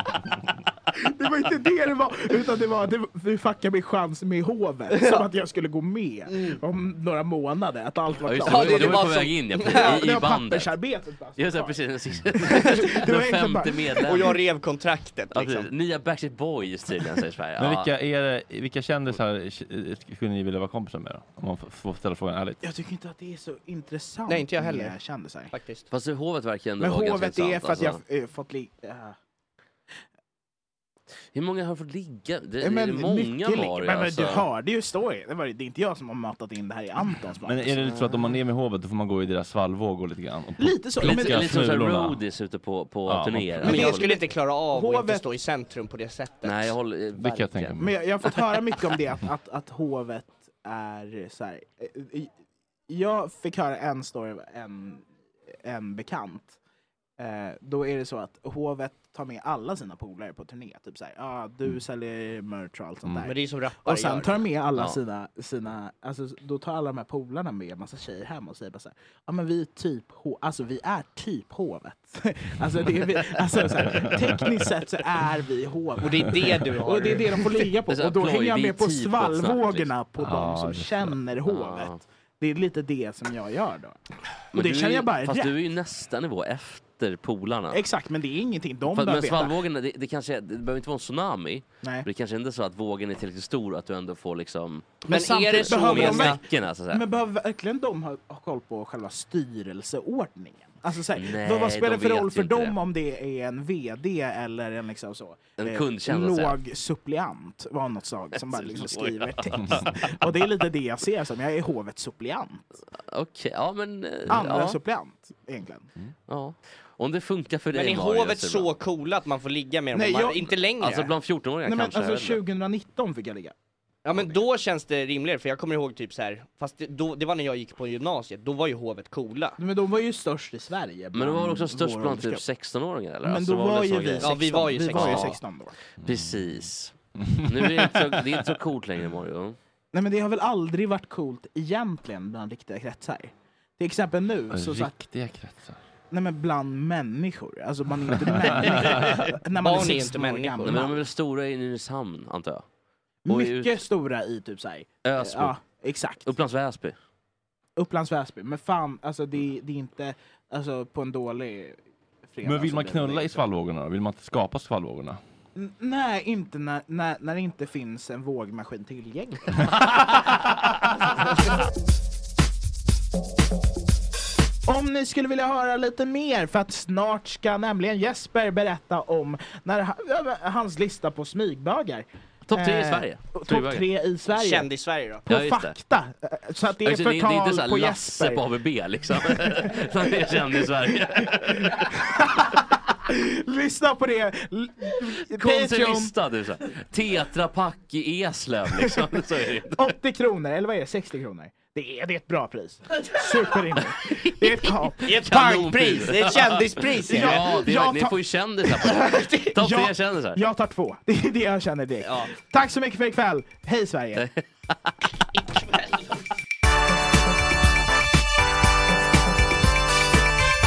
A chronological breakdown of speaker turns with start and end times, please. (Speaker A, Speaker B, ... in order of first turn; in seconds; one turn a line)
Speaker A: 0.9-11.8
Speaker B: 4.9-5.2
Speaker B: 6.3-6.6
Speaker C: 8.2-10.7
Speaker B: 8.4-10.0
Speaker C: 11.4-14.2
Speaker A: 12.5-14.3
Speaker B: 14.0-15.7
Speaker C: 15.3-17.9
Speaker D: 17.6-22.6
Speaker A: 22.6-25.5
Speaker B: 24.3-24.9
Speaker B: 25.5-25.8
Speaker C: 25.9-28.0
Speaker A: 26.8-29.2
Speaker C: 31.3-34.5
Speaker A: 32.6-38.1
Speaker D: 37.4-42.2
Speaker A: 40.6-41.5
Speaker C: 41.0-44.1
Speaker D: 43.1-43.9
Speaker B: 43.6-46.7
Speaker A: 43.8-44.2
Speaker A: 44.7-45.2
Speaker C: 46.4-47.8
Speaker D: 47.2-47.9
Speaker A: 47.8-52.3
Speaker A: 52.9-55.1
Speaker A: 55.6-56.6
Speaker A: 57.2-63.3
Speaker B: 63.2-64.4
Speaker A: 63.8-84.0
Speaker D: 73.8-74.1
Speaker B: 76.0-77.5
Speaker C: 77.9-79.9
Speaker D: 80.2-81.1
Speaker C: 81.5-82.0
Speaker A: 84.5-85.5
Speaker C: 84.5-87.8
Speaker A: 87.7-89.6
Speaker C: 88.9-97.0
Speaker A: 95.0-112.7
Speaker B: 95.1-96.4
Speaker C: 101.1-102.7
Speaker C: 105.6-106.6
Speaker C: 108.4-110.2
Speaker C: 113.1-114.8
Speaker A: 114.3-115.9
Speaker C: 116.3-118.7
Speaker B: 117.7-121.1
Speaker A: 119.9-120.5
Speaker C: 120.8-122.4
Speaker A: 121.6-123.5
Speaker B: 124.0-129.6
Speaker A: 129.6-132.4
Speaker C: 131.1-135.4
Speaker A: 133.2-135.8
Speaker B: 134.2-135.4
Speaker C: 136.0-139.6
Speaker D: 136.0-136.6
Speaker D: 137.2-138.2
Speaker A: 139.9-144.9
Speaker D: 144.5-145.8
Speaker A: 146.1-151.0
Speaker B: 149.6-150.9
Speaker C: 150.6-152.6
Speaker A: 153.2-156.3
Speaker C: 153.3-153.8
Speaker C: 155.0-155.6
Speaker C: 156.2-156.9
Speaker A: 157.8-163.5
Speaker D: 162.4-165.2
Speaker A: 165.5-171.1
Speaker A: 174.7-184.7
Speaker C: 182.5-183.9
Speaker B: 184.3-185.2
Speaker A: 185.2-188.4
Speaker C: 185.3-185.8
Speaker C: 186.8-191.9
Speaker A: 189.3-190.3
Speaker A: 191.1-196.1
Speaker C: 195.3-199.9
Speaker A: 198.8-199.1
Speaker A: 199.7-205.7
Speaker B: 205.0-207.5
Speaker C: 205.1-210.4
Speaker A: 207.1-214.2
Speaker B: 212.0-212.3
Speaker B: 215.5-216.0